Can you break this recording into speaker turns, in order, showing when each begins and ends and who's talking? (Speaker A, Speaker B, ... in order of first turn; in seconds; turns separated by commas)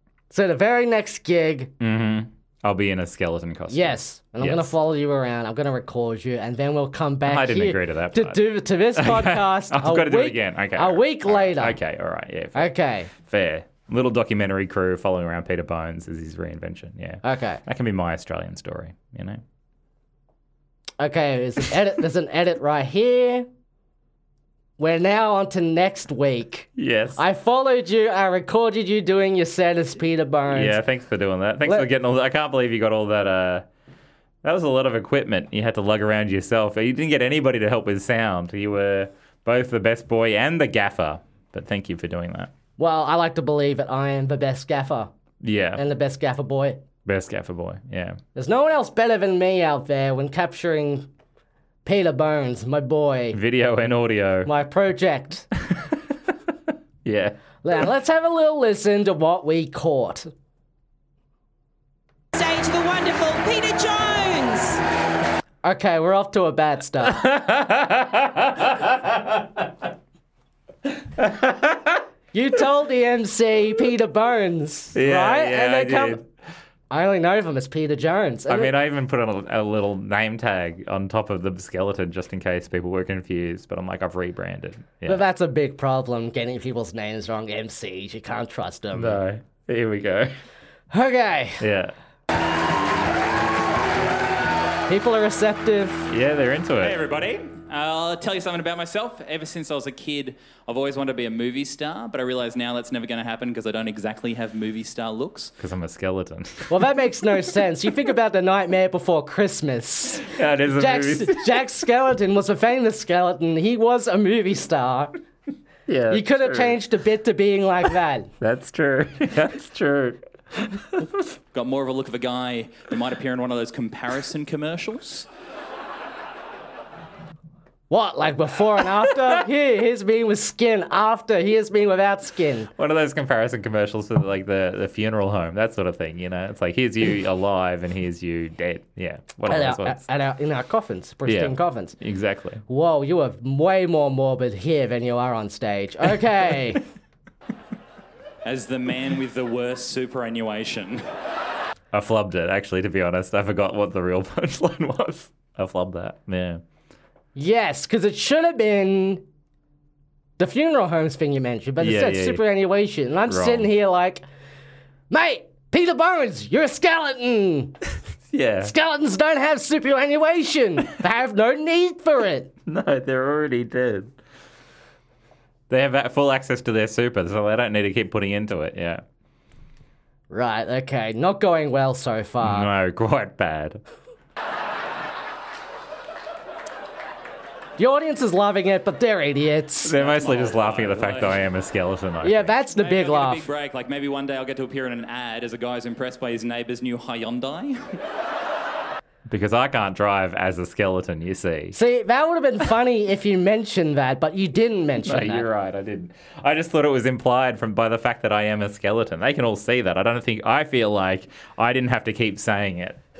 Speaker A: 0.3-1.7, Speaker B: 1.8-4.7, Speaker A: 3.7-11.8, Speaker B: 7.2-8.4, Speaker B: 8.9-19.4, Speaker A: 12.5-13.1, Speaker A: 17.2-17.6, Speaker A: 21.0-23.5, Speaker A: 24.8-30.8, Speaker B: 26.8-27.2, Speaker B: 30.5-33.6, Speaker B: 34.4-42.5, Speaker A: 42.8-45.1, Speaker B: 45.4-45.8, Speaker A: 45.8-46.8, Speaker B: 47.0-48.2, Speaker A: 48.3-51.1, Speaker A: 51.8-53.4, Speaker B: 53.3-54.5, Speaker A: 54.4-55.5, Speaker B: 57.0-57.4, Speaker A: 57.6-60.3, Speaker C: 62.3-64.8, Speaker A: 65.6-67.3, Speaker B: 67.0-69.7, Speaker B: 71.0-72.0, Speaker A: 72.3-76.2, Speaker B: 74.9-76.2, Speaker A: 76.9-78.7, Speaker B: 78.5-85.2, Speaker A: 85.0-89.2, Speaker B: 88.9-90.3, Speaker A: 90.9-91.6, Speaker B: 91.6-91.9, Speaker A: 94.9-96.1, Speaker B: 96.1-97.0, Speaker D: 96.8-105.5, Speaker B: 105.6-106.8, Speaker A: 106.7-115.2, Speaker B: 110.2-111.6, Speaker B: 115.9-116.8, Speaker A: 116.1-118.3, Speaker B: 118.4-121.2, Speaker D: 121.5-125.3, Speaker A: 127.9-132.7, Speaker B: 132.8-140.0, Speaker A: 139.5-141.9, Speaker B: 141.2-142.6, Speaker A: 142.7-146.8, Speaker D: 148.4-151.0, Speaker B: 151.9-156.6, Speaker A: 157.3-159.2, Speaker A: 160.4-164.2, Speaker B: 161.8-162.4, Speaker B: 163.2-163.7, Speaker A: 165.1-167.8, Speaker B: 168.3-168.7, Speaker A: 168.6-172.5, Speaker B: 172.7-174.1, Speaker B: 175.7-179.0, Speaker A: 180.3-182.7, Speaker B: 182.4-183.8, Speaker A: 187.8-189.9, Speaker B: 189.8-192.5, Speaker D: 189.9-191.4, Speaker A: 192.2-193.4, Speaker D: 192.7-198.0, Speaker B: 199.3-201.8, Speaker A: 201.7-205.5, Speaker B: 205.0-213.0